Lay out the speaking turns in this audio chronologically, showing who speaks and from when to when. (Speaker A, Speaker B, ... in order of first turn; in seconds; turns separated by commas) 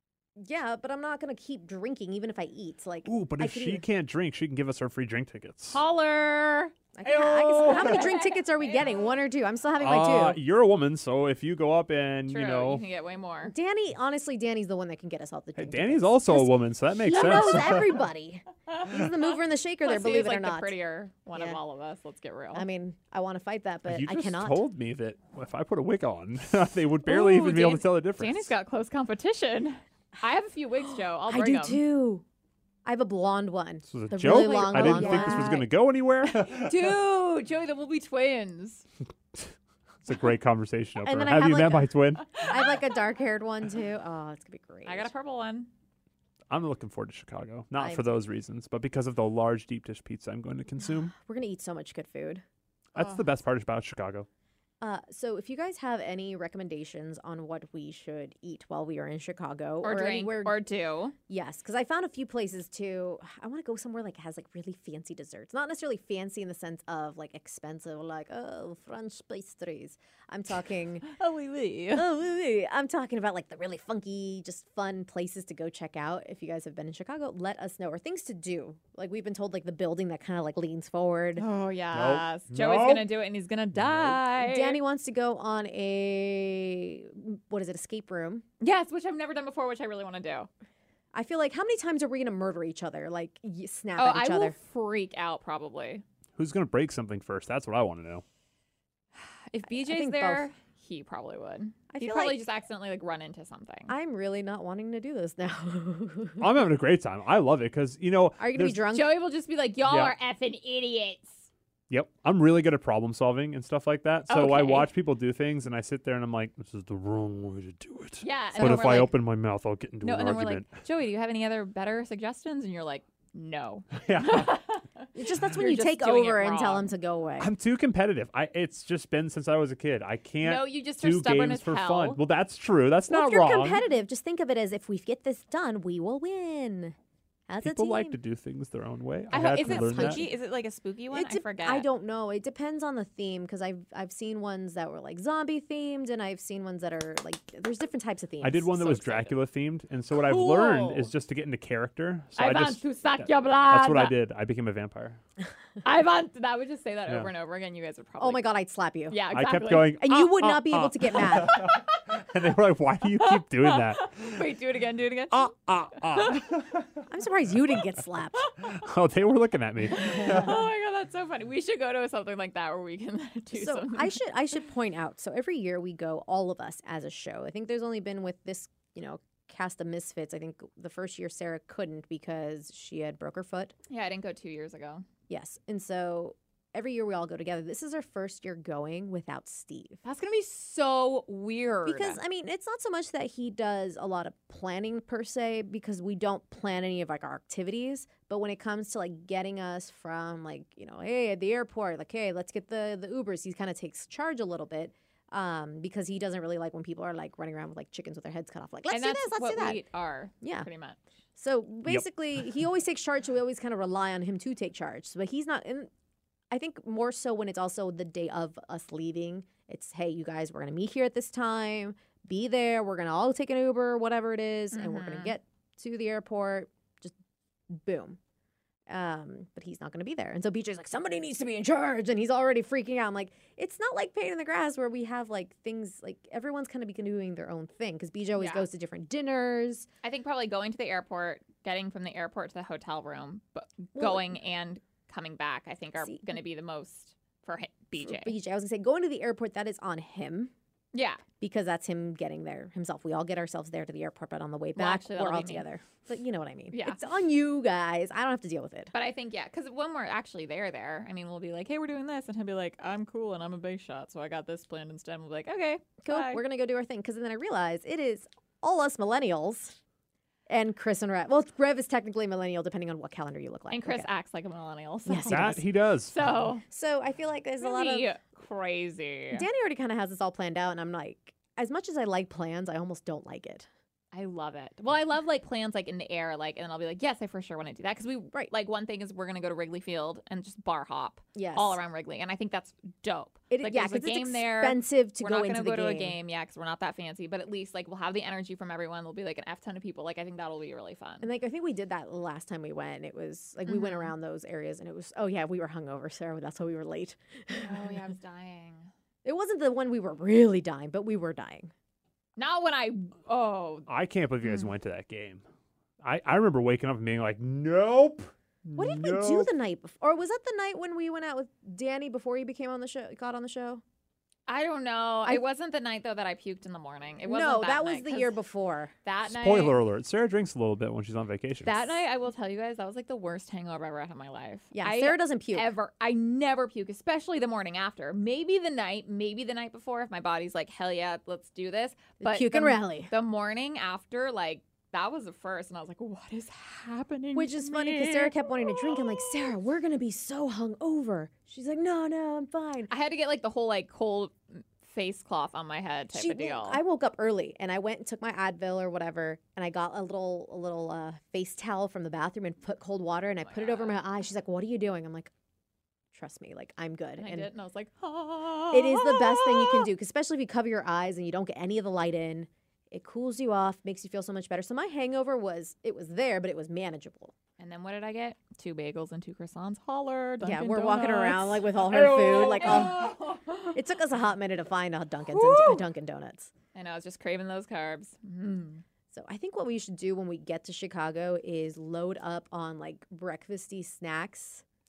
Speaker A: 0.4-3.8, Speaker B: 3.0-5.8, Speaker C: 5.7-9.0, Speaker A: 6.9-10.4, Speaker B: 7.0-8.0, Speaker B: 9.8-12.8, Speaker C: 12.3-13.5, Speaker A: 13.4-20.7, Speaker B: 15.6-18.0, Speaker C: 18.7-19.0, Speaker C: 19.8-22.6, Speaker A: 21.3-21.6, Speaker A: 22.5-24.6, Speaker B: 23.9-28.5, Speaker C: 27.0-31.8, Speaker A: 31.2-32.2, Speaker A: 32.8-35.7, Speaker B: 33.9-36.8, Speaker C: 34.2-35.6, Speaker C: 36.3-38.8, Speaker B: 40.0-42.3, Speaker A: 41.0-45.1, Speaker C: 42.3-42.6, Speaker C: 44.8-45.7, Speaker B: 46.5-51.1, Speaker A: 47.8-48.1, Speaker A: 50.8-52.4, Speaker B: 52.9-54.3, Speaker C: 53.0-53.2, Speaker A: 54.8-60.6, Speaker C: 59.8-61.1, Speaker A: 61.3-71.1, Speaker C: 71.1-72.0, Speaker A: 71.9-81.4, Speaker C: 81.3-84.8, Speaker B: 81.9-83.1, Speaker B: 83.7-84.2, Speaker A: 84.3-88.4, Speaker C: 88.6-90.5, Speaker A: 91.1-94.5, Speaker C: 94.0-96.0, Speaker B: 96.3-98.2, Speaker C: 99.1-103.9, Speaker A: 99.7-100.5, Speaker A: 101.9-102.4, Speaker A: 103.9-106.5, Speaker B: 106.4-108.8, Speaker A: 108.4-109.2, Speaker C: 108.9-111.5, Speaker B: 109.9-110.1, Speaker B: 111.9-120.7, Speaker C: 114.3-114.9, Speaker C: 118.2-119.1, Speaker A: 118.5-119.1, Speaker C: 120.0-126.9, Speaker B: 124.0-124.6, Speaker A: 125.1-127.5, Speaker B: 127.4-133.8, Speaker C: 130.4-132.2, Speaker A: 133.1-136.9, Speaker A: 137.5-138.2, Speaker B: 137.6-140.2, Speaker C: 139.3-141.9, Speaker A: 139.4-140.3, Speaker A: 141.1-149.3, Speaker B: 148.4-155.2, Speaker C: 149.0-149.3, Speaker C: 150.1-151.1, Speaker C: 152.4-154.2, Speaker C: 155.8-158.5, Speaker A: 158.2-159.2, Speaker C: 159.1-160.0, Speaker B: 159.3-164.4, Speaker A: 159.8-161.6, Speaker C: 163.2-165.5, Speaker B: 165.3-167.0, Speaker C: 166.1-166.4, Speaker A: 167.1-168.4, Speaker B: 168.6-170.6, Speaker C: 169.9-174.2, Speaker A: 173.5-183.7, Speaker C: 183.9-185.0, Speaker A: 185.3-190.0, Speaker C: 190.0-192.2, Speaker A: 191.8-209.8, Speaker C: 208.9-211.0, Speaker A: 210.4-210.7, Speaker A: 211.3-215.9, Speaker A: 216.5-227.1, Speaker C: 224.7-225.3, Speaker A: 227.7-228.2, Speaker A: 228.9-239.9, Speaker C: 238.3-238.7, Speaker C: 240.0-248.3, Speaker A: 243.9-244.3, Speaker A: 246.0-246.4, Speaker A: 248.0-250.5, Speaker C: 250.9-251.2, Speaker A: 251.4-258.9, Speaker C: 254.8-255.7, Speaker C: 256.7-257.0, Speaker C: 258.9-266.4, Speaker A: 266.0-269.8, Speaker A: 270.5-274.1, Speaker C: 273.7-276.6, Speaker A: 275.1-275.6, Speaker B: 275.3-276.1, Speaker A: 276.6-278.1, Speaker C: 277.6-279.4, Speaker A: 279.3-283.7, Speaker C: 284.1-301.3, Speaker A: 291.3-291.8, Speaker A: 293.5-296.1, Speaker A: 301.2-307.9, Speaker C: 303.7-304.1, Speaker C: 307.5-308.9, Speaker A: 309.2-311.7, Speaker C: 312.4-313.9, Speaker B: 313.9-315.4, Speaker B: 316.0-319.5, Speaker A: 318.8-323.8, Speaker C: 324.5-328.3, Speaker A: 327.2-328.9, Speaker C: 329.0-329.8, Speaker B: 329.2-331.9, Speaker C: 331.6-349.2, Speaker A: 334.7-335.7, Speaker A: 342.2-343.1, Speaker A: 347.3-352.9, Speaker C: 352.9-356.8, Speaker A: 356.1-365.3, Speaker C: 363.4-364.0, Speaker A: 366.1-367.5, Speaker C: 367.2-369.9, Speaker A: 368.7-377.3, Speaker C: 377.6-383.8, Speaker A: 380.4-386.5, Speaker C: 385.3-385.9, Speaker C: 386.7-388.8, Speaker A: 389.1-394.6